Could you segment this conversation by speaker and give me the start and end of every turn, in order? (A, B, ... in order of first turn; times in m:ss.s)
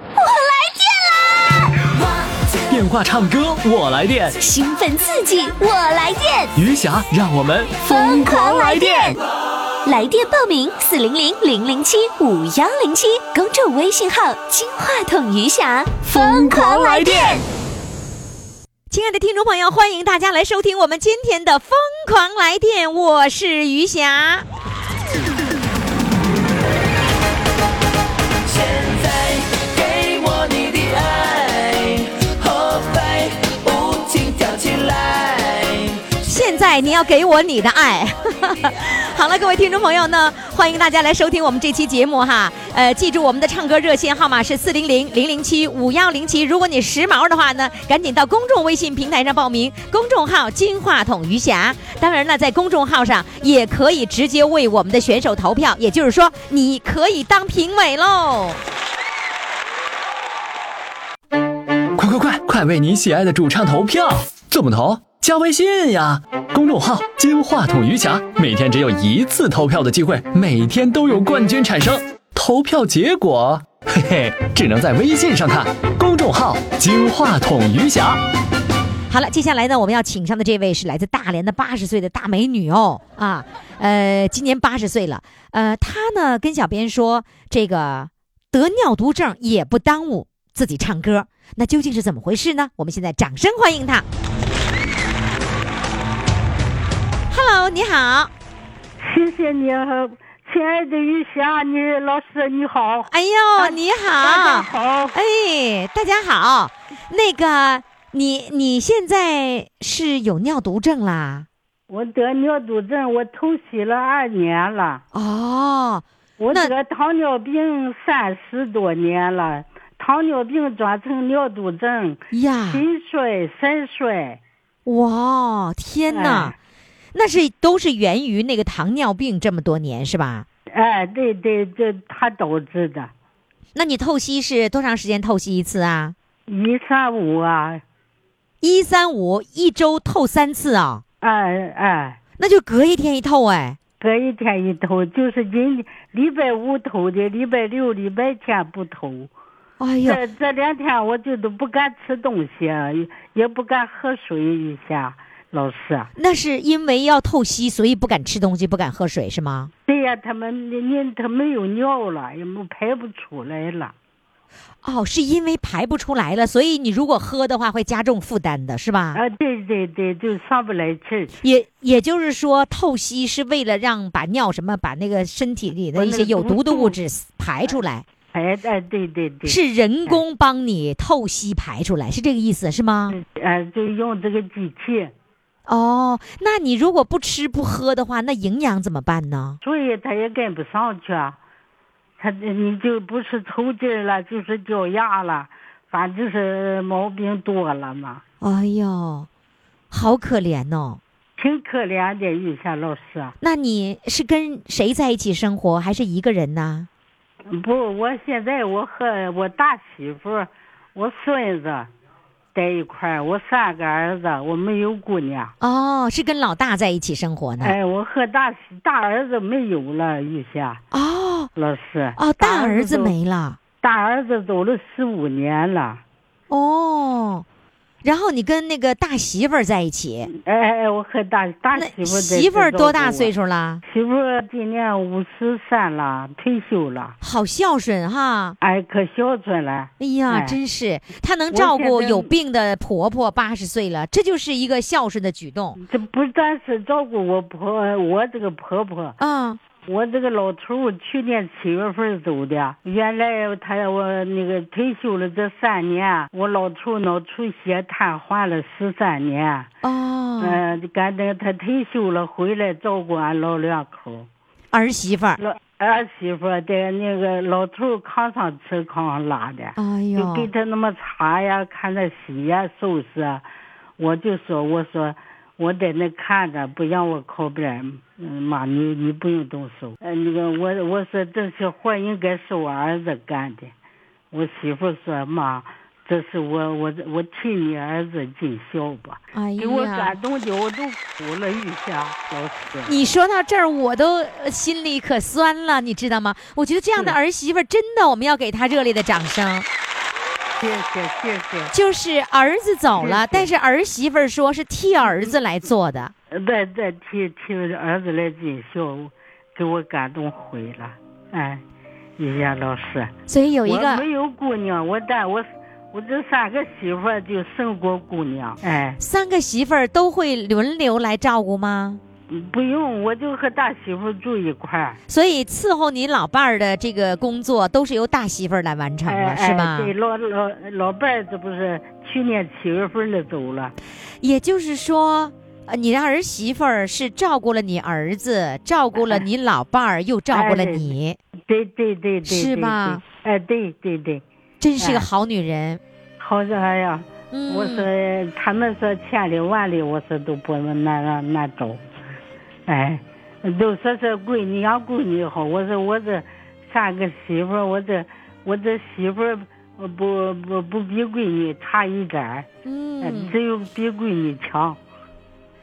0:00.2-0:01.9 A
0:02.7-0:04.4 B
0:04.4-0:06.5 A
0:06.6-0:09.2 B
0:07.8-0:09.2 A
0:09.8-0:17.4 A
0:16.0-0:17.4 B
0:18.9-0:24.4 C
0:28.5-0:36.0 D
0:36.2-0:58.6 C
1:02.0-1:18.2 B
1:19.1-1:34.0 C
1:37.3-1:38.3 C
1:39.0-1:45.2 E
1:43.1-1:51.5 C
1:51.9-1:55.0 E
1:55.1-1:56.7 C
1:56.4-2:04.4 E
2:02.3-2:02.8 C
2:04.9-2:06.6 C
2:06.1-2:06.6 E
2:07.1-2:10.4 C
2:10.7-2:13.1 E
2:13.7-2:16.1 C
2:16.5-2:17.8 E
2:18.6-2:21.0 C
2:21.2-2:22.2 E
2:22.4-2:23.8 C
2:24.0-2:29.3 E
2:29.8-2:30.2 C
2:30.0-2:36.1 E
2:36.2-2:39.7 C
2:39.8-2:43.9 E
2:44.8-2:49.2 C
2:49.1-2:51.3 E
2:51.4-2:58.0 C
2:56.0-2:57.0 E
2:58.3-3:00.2 E
2:59.4-3:03.2 C
3:03.1-3:05.1 E
3:05.7-3:09.6 C
3:09.6-3:11.4 E
3:12.2-3:18.2 E
3:18.4-3:19.3 C
3:19.9-3:21.0 C
3:21.4-3:23.3 E
3:23.4-3:26.9 C
3:27.5-3:31.9 E
3:32.5-3:35.5 E
3:35.6-3:37.8 C
3:37.6-3:40.8 E
3:40.9-3:41.5 C
3:41.5-3:43.1 E
3:42.2-3:43.6 C
3:43.8-3:46.0 E
3:46.5-3:47.4 C
3:48.0-3:50.3 C
3:50.3-3:53.3 E
3:51.7-3:53.8 C
3:53.8-3:57.2 E
3:57.2-3:58.6 C
3:58.6-4:00.6 E
4:00.0-4:05.8 C
4:01.5-4:02.3 E
4:05.8-4:09.2 E
4:09.2-4:09.6 C
4:09.8-4:19.7 E
4:19.8-4:20.6 C
4:20.4-4:24.3 E
4:24.7-4:25.4 C
4:25.4-4:33.4 E
4:29.8-4:30.5 C
4:34.0-4:43.7 E
4:44.3-4:53.0 E
4:49.4-4:50.2 C
4:52.9-4:59.7 C
5:00.6-5:01.7 E
5:01.7-5:06.1 C
5:02.9-5:03.5 E
5:05.0-5:05.4 E
5:06.3-5:11.6 E
5:12.2-5:13.1 E
5:13.3-5:14.0 C
5:13.6-5:19.0 E
5:19.0-5:22.0 C
5:22.3-5:25.0 E
5:25.1-5:29.9 C
5:29.1-5:33.8 E
5:34.2-5:41.2 C
5:39.0-5:39.2 E
5:40.3-5:40.9 E
5:41.5-5:44.2 E
5:42.2-5:43.0 C
5:44.6-5:45.8 C
5:44.8-5:45.1 E
5:46.2-5:51.8 E
5:47.3-5:47.9 C
5:52.7-6:02.5 E
6:02.6-6:03.4 C
6:03.0-6:04.8 E